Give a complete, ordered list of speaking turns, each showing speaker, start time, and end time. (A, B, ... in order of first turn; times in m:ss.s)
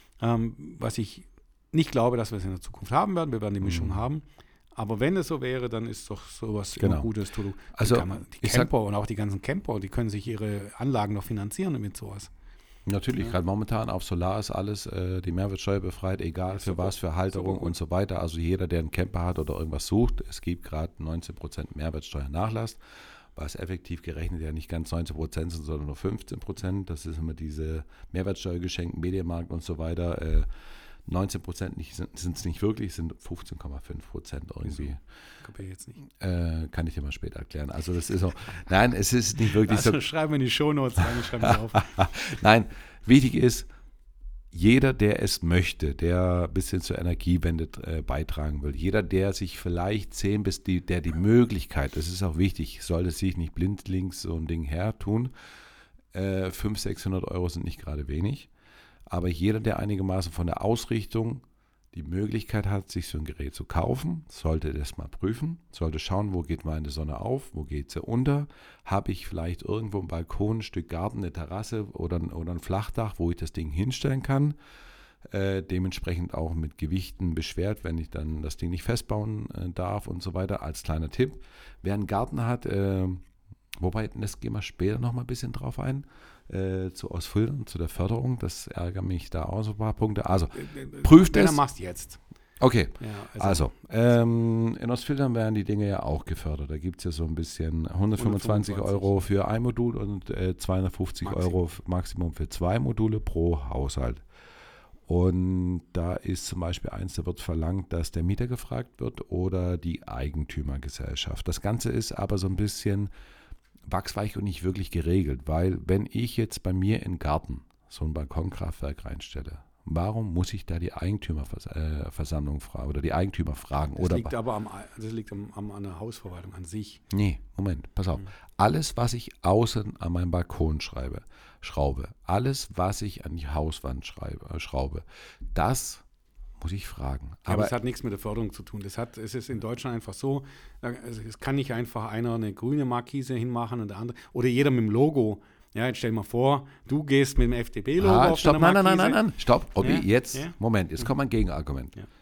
0:00.2-0:04.2 A
0:03.6-0:04.0 B
0:04.7-0:12.3 A
0:06.8-0:07.1 B
0:07.7-0:08.7 B
0:12.8-0:30.5 B
0:16.5-0:17.7 A
0:31.0-0:35.0 B
0:35.4-0:36.0 A
0:36.1-0:40.0 B
0:39.5-0:41.9 A
0:41.0-0:43.7 B
0:44.5-0:55.3 B
0:56.1-0:58.5 B
0:59.1-1:14.6 B
1:15.2-1:23.2 B
1:23.8-1:31.6 B
1:30.5-1:32.2 A
1:32.6-1:44.2 B
1:33.0-1:33.7 A
1:38.2-1:39.2 A
1:41.2-1:41.6 A
1:45.0-1:53.1 B
1:53.8-2:04.3 B
2:04.0-2:07.0 A
2:07.1-2:16.0 B
2:16.6-2:17.7 B
2:17.5-2:29.2 A
2:28.0-2:32.0 B
2:29.8-2:31.1 A